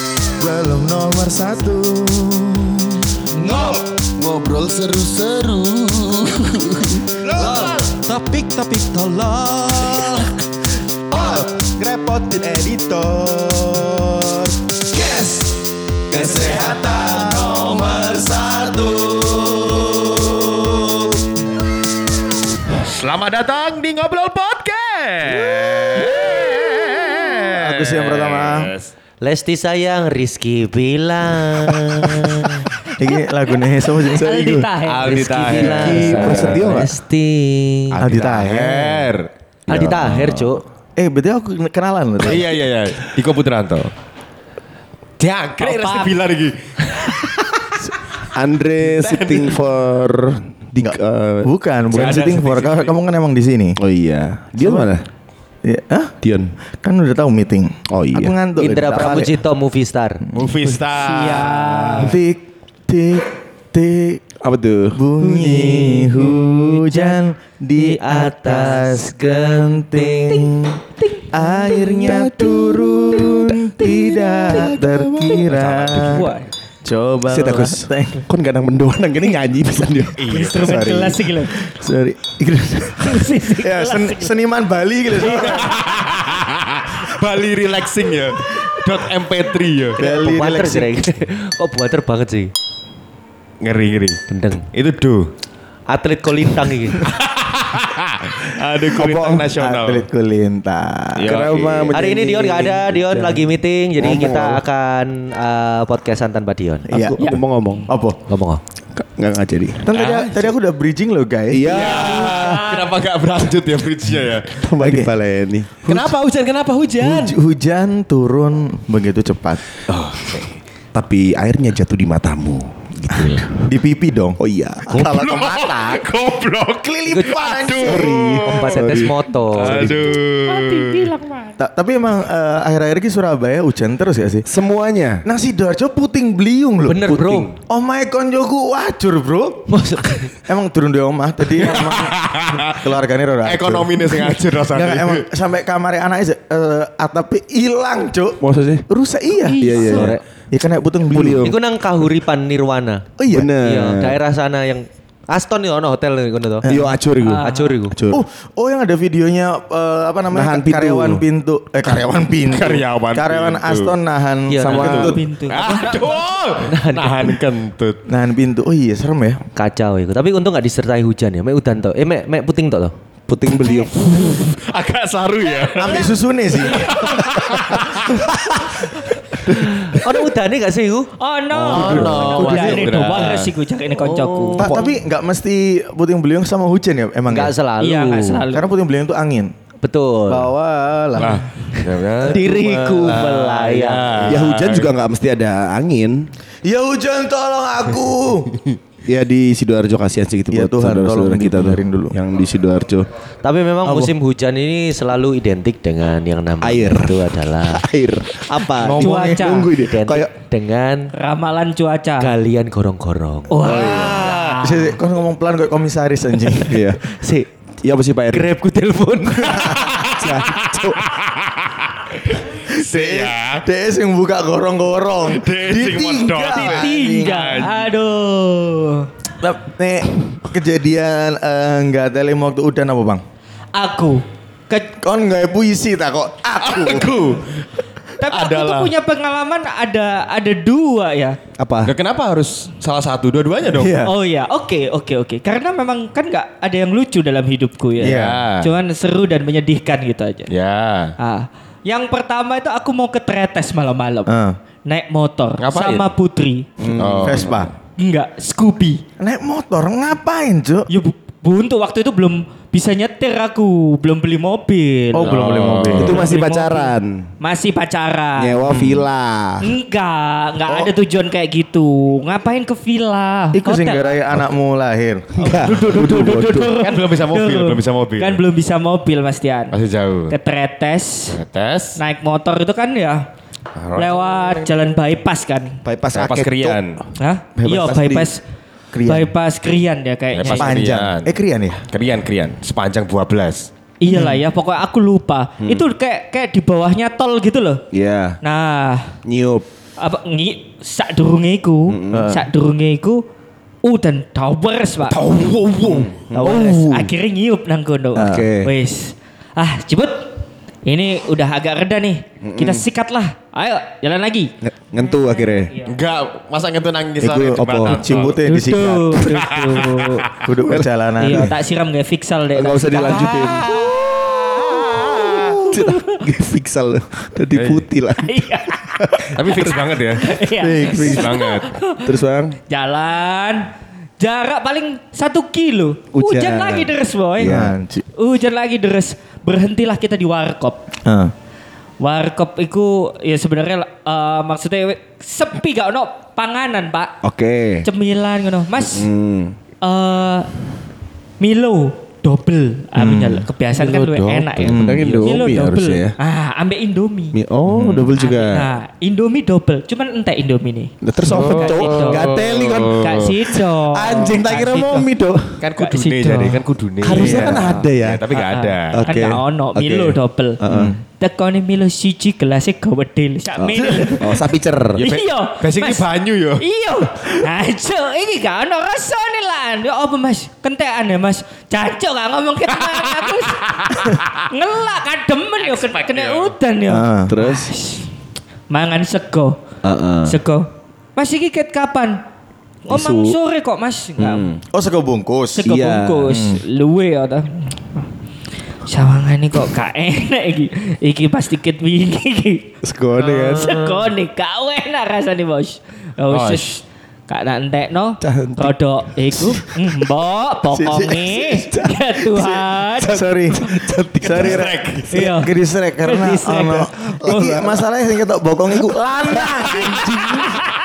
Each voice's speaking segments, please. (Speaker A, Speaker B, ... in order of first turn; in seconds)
Speaker A: 0.4-10.3, 11.1-15.5, 16.1-20.8, 27.5-28.7, 33.0-34.3, 38.0-39.1, 41.0-42.6, 50.8-53.8, 54.6-54.9, 55.6-56.1, 56.8-59.4, 60.3-60.8, 62.0-64.2, 65.0-70.8, 71.3-76.3, 76.8-78.2, 80.6-85.8, 90.0-91.0, 99.1-101.2, 106.9-107.3, 107.9-108.2, 109.8-112.1, 114.8-115.1, 117.0-119.6, 123.6-124.3, 124.9-126.0, 126.8-128.3, 131.6-134.4, 135.2-139.6, 140.4-142.2, 142.8-149.9, 150.5-151.5, 153.2-153.5, 156.6-156.9, 158.1-165.2, 168.1-169.4, 175.8-177.0, 184.6-187.5, 188.5-189.5, 190.3-191.4, 192.3-193.5, 196.6-198.5, 200.5-202.2, 203.8-204.1, 208.7-209.5, 214.6-216.8, 219.5-219.9, 222.5-227.3, 229.4-233.2, 235.0-237.1, 243.7-244.1, 248.0-248.4, 254.3-254.6, 257.2-257.7, 259.2-260.9, 265.1-266.2, 268.7-269.1, 273.5-275.4, 288.9-289.3, 290.5-291.8, 294.1-294.4, 302.1-302.4, 317.2-319.2, 320.4-321.5, 330.6-331.4, 337.4-338.0, 341.1-341.3, 352.9-353.4, 354.6-355.1, 367.1-367.8, 370.7-371.0, 373.8-374.1, 386.9-387.3, 394.7-395.7, 396.3-396.6, 410.7-411.7, 412.3-413.6, 414.2-419.9
Speaker B: 22.8-28.9, 34.9-36.7, 37.9-39.3, 42.2-43.9, 45.2-47.5, 48.8-49.6, 51.9-52.9, 60.3-62.1, 75.5-76.3, 80.2-80.7, 85.2-90.0, 93.6-94.2, 94.7-95.3, 97.0-100.1, 101.2-102.0, 109.9-110.5, 111.7-114.7, 115.8-117.4, 119.9-120.5, 125.0-131.1, 141.6-145.2, 162.0-164.0, 165.0-168.0, 173.6-176.1, 176.7-178.8, 179.4-180.1, 181.7-183.5, 191.2-194.9, 219.5-223.7, 225.2-227.9, 236.6-237.7, 238.3-238.9, 241.8-243.9, 248.0-248.7, 250.5-251.1, 255.6-256.1, 256.9-257.7, 265.2-266.2, 276.8-278.4, 279.7-280.4, 281.3-282.0, 283.8-284.7, 286.1-287.0, 290.3-291.3, 291.9-293.7, 305.1-306.1, 315.9-318.4, 319.2-320.4, 325.0-325.6, 327.5-327.9, 329.4-330.3, 331.1-331.7, 357.7-358.0, 361.3-363.3, 365.6-369.0, 375.0-376.6, 383.8-384.1, 385.6-386.5, 406.3-406.8, 414.4-415.1, 419.9-420.5
Speaker C: 29.2-32.7, 35.0-38.0, 39.7-40.6, 58.6-60.2, 65.4-66.2, 67.8-70.5, 90.0-92.5, 94.3-94.6, 95.9-97.0, 101.9-106.9, 108.3-108.6, 127.1-127.5, 128.4-129.9, 136.8-137.5, 139.7-140.3, 149.8-150.2, 151.4-153.1, 153.6-156.7, 157.4-158.0, 164.5-165.0, 166.7-167.3, 169.6-172.9, 179.7-182.7, 184.0-184.9, 187.3-188.5, 189.8-190.5, 192.2-194.4, 203.4-207.8, 209.7-211.1, 212.2-213.6, 217.2-217.5, 218.3-219.6, 403.2-404.0
Speaker D: 34.1-36.5, 45.6-46.2, 60.9-62.2, 71.0-71.3, 76.0-76.5, 80.3-81.6, 83.0-84.3, 85.2-85.7, 111.8-112.8, 130.5-131.6, 149.4-150.1, 157.2-157.8, 164.7-166.1, 176.8-177.0, 181.2-184.7, 187.8-188.7, 208.9-209.7, 211.1-212.3, 213.5-215.0, 226.4-229.1, 233.8-234.9, 238.2-241.4, 244.0-250.5, 251.2-254.3, 254.9-256.6, 258.0-259.0, 260.9-265.4, 266.0-268.6, 269.6-274.2, 275.4-279.8, 280.3-281.4, 282.0-283.3, 283.9-285.8, 287.2-288.4, 289.0-290.7, 294.0-297.8, 298.4-299.1, 300.0-303.2, 303.8-305.2, 306.3-310.3, 310.9-314.5, 318.4-320.3, 321.2-323.7, 325.6-326.0, 328.2-329.3, 330.2-332.1, 332.7-333.7, 334.2-337.6, 338.2-340.8, 342.0-347.2, 347.8-349.1, 349.8-350.5, 351.4-357.4, 358.2-362.3, 362.9-365.1, 365.8-366.6, 367.2-370.6, 371.2-374.4, 375.0-376.1, 376.6-388.1, 388.7-389.6, 390.2-392.2, 392.9-394.5, 395.6-398.1, 398.9-402.7, 403.5-413.2, 415.1-415.5, 416.0-417.7
Speaker E: 34.2-37.0, 39.7-40.5, 48.3-51.5, 53.8-55.0, 56.2-56.5, 57.9-58.3, 64.4-65.0, 71.4-75.5, 77.3-80.9, 99.0-99.5, 101.2-104.6, 106.9-107.9, 109.0-109.9, 111.5-112.6, 114.6-115.9, 120.9-123.5, 124.4-125.4, 127.8-130.1, 134.5-135.2, 148.4-148.8, 149.5-150.2, 151.1-151.6, 153.3-154.2, 156.7-158.2, 160.3-161.2, 164.6-165.2, 173.3-173.9, 194.3-196.3, 199.1-203.1, 206.6-210.3, 213.6-214.3, 216.7-217.0, 217.8-218.5, 220.2-221.0, 241.6-241.9, 256.8-257.4, 265.9-267.2, 268.4-269.7, 275.4-276.7, 285.8-286.8, 287.6-288.2, 295.6-295.9, 297.9-298.4, 299.2-299.7, 301.9-302.4, 305.8-307.1, 308.2-308.7, 312.4-312.9, 314.6-315.7, 317.4-318.1, 320.7-321.6, 322.5-323.9, 325.6-329.9, 332.0-332.6, 336.1-337.7, 347.2-347.9, 348.9-349.6, 353.8-356.1, 357.3-358.7, 361.0-365.6, 367.0-368.3, 368.9-370.9, 373.6-375.1, 387.3-387.7, 389.8-390.4, 392.9-393.4, 394.2-394.6, 395.6-396.4, 402.8-403.8, 408.2-408.7, 409.3-409.7, 411.6-412.2, 413.0-414.8, 417.2-417.8, 418.7-420.1